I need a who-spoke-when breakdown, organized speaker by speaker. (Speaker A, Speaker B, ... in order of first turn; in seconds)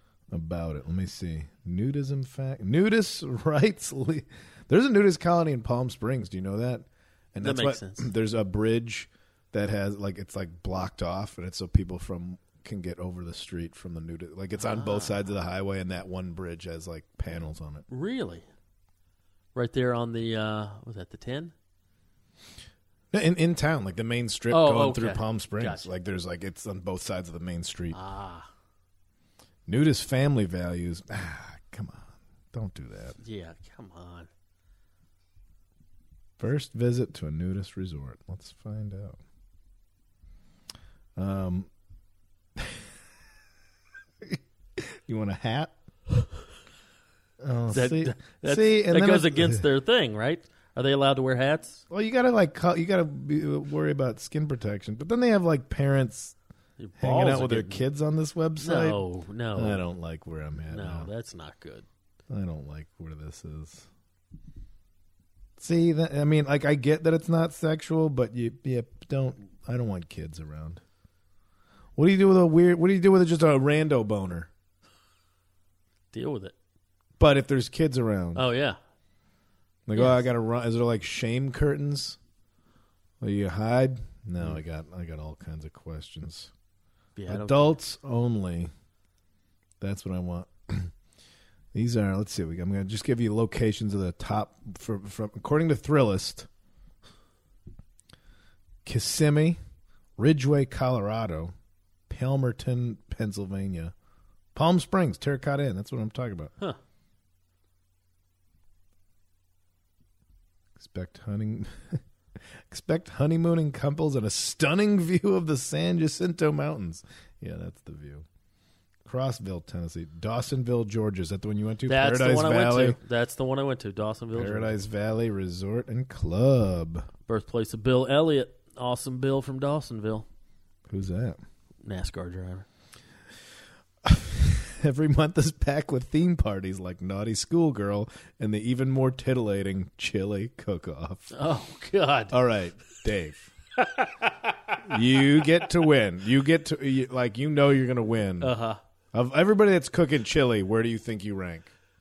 Speaker A: 0.3-17.9, 23.1-28.0, 29.7-33.2, 36.4-39.2, 41.2-41.7, 42.6-42.8, 44.2-45.7, 47.4-49.6, 51.9-56.4, 57.0-59.0, 59.5-61.1, 62.3-63.9, 65.6-70.8, 72.0-74.5, 77.2-78.5, 79.9-82.2, 83.2-86.5, 87.3-88.7, 89.8-90.9, 91.7-96.5, 98.8-99.6, 100.2-101.5, 102.1-103.9, 104.5-106.5, 110.8-112.0, 112.7-118.3, 119.0-123.0, 124.3-127.1, 130.9-131.4, 134.1-141.3, 142.3-143.5, 144.8-148.5, 149.1-151.7
Speaker B: 7.4-8.1, 14.6-15.2, 17.9-18.4, 19.6-21.5, 24.5-25.9, 27.9-28.5, 33.2-34.3, 47.7-51.8, 56.8-57.8, 58.6-59.8, 60.7-61.9, 76.1-76.5, 78.3-78.8, 79.9-80.2, 87.2-87.7, 121.9-124.8, 127.3-130.3, 131.8-132.7, 141.3-142.3, 143.8-144.8, 148.4-148.8